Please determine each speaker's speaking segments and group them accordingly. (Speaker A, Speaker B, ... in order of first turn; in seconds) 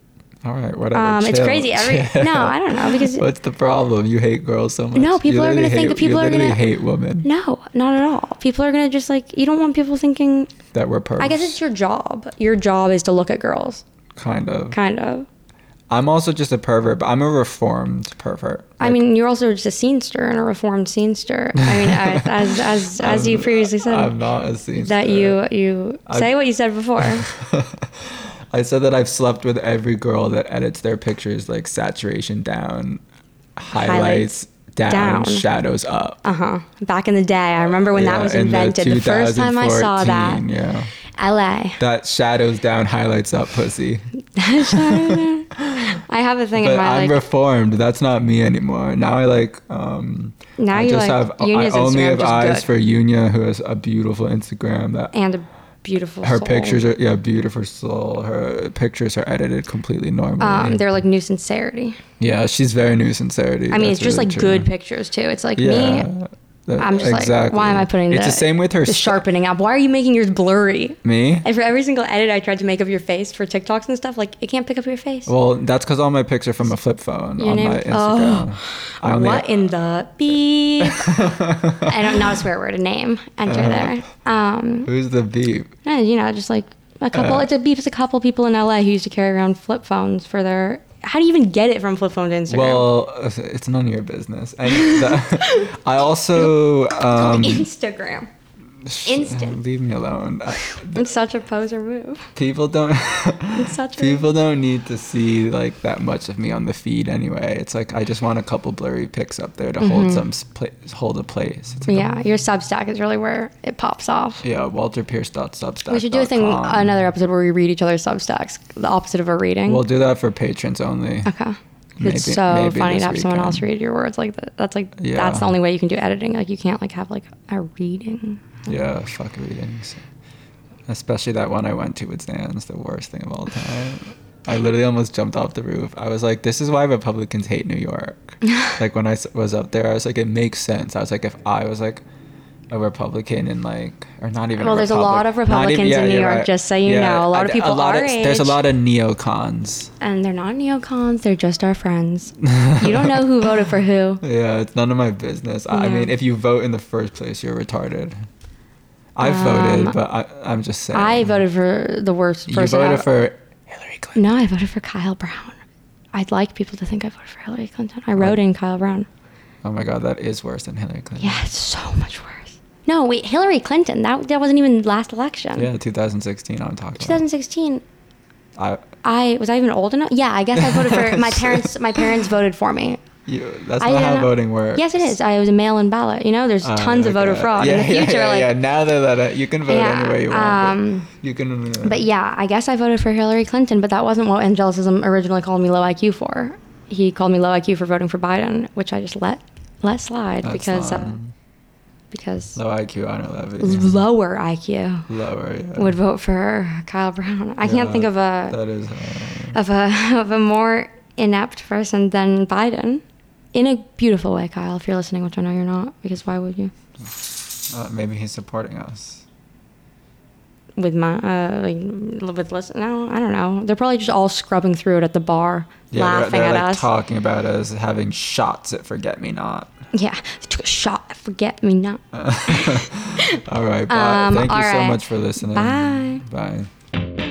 Speaker A: 0.4-7.3, 10.7-11.6, 14.2-14.8, 15.9-19.0, 21.6-25.4, 26.1-26.4, 27.0-33.0, 33.6-36.2, 37.9-40.9, 41.8-44.0, 44.6-45.9, 46.5-55.1, 56.2-60.9, 62.2-64.7, 65.6-69.2, 71.0-71.5, 75.3-79.5, 80.8-82.3, 83.5-84.0, 84.9-85.7, 87.1-87.5, 92.5-97.7, 98.8-101.1, 102.4-112.1, 114.4-116.9, 119.7-121.3, 122.0-123.7, 125.0-125.5, 128.7-130.0, 130.9-142.0, 142.7-149.9, 152.4-153.5, 154.2-158.2, 159.2-161.4, 162.5-164.2, 169.6-171.4, 175.6-177.2, 178.6-178.8, 180.5-182.2, 183.3-185.2, 186.6-192.1, 200.4-201.3, 202.6-204.0, 205.1-206.0, 207.6-209.6, 217.0-219.2, 225.9-229.7, 232.1-236.7
Speaker B: 0.9-3.2, 5.0-6.7, 7.2-10.5, 11.2-13.8, 14.7-15.3, 18.8-24.1, 24.8-27.3, 33.7-34.3, 34.9-35.5, 36.2-40.4, 41.2-41.8, 44.4-45.5, 46.1-47.2, 50.6-52.7, 55.1-56.8, 60.4-62.0, 63.7-66.1, 66.8-75.3, 77.4-81.3, 81.8-84.9, 85.8-92.9, 94.7-95.7, 96.4-98.3, 99.1-99.6, 100.6-102.3, 103.5-104.2, 109.8-110.2, 111.9-114.4, 115.9-119.8, 121.2-128.6, 144.6-148.6, 150.0-154.2, 155.7-156.1, 159.2-160.0, 160.9-163.1, 164.2-165.6, 166.1-169.1, 171.2-175.7, 177.0-177.8, 179.0-183.0, 183.8-188.5, 189.7-191.1, 191.8-201.2, 202.1-202.6, 203.6-205.1, 205.8-208.6, 209.5-213.0, 213.5-216.7, 220.8-226.9, 229.9-236.2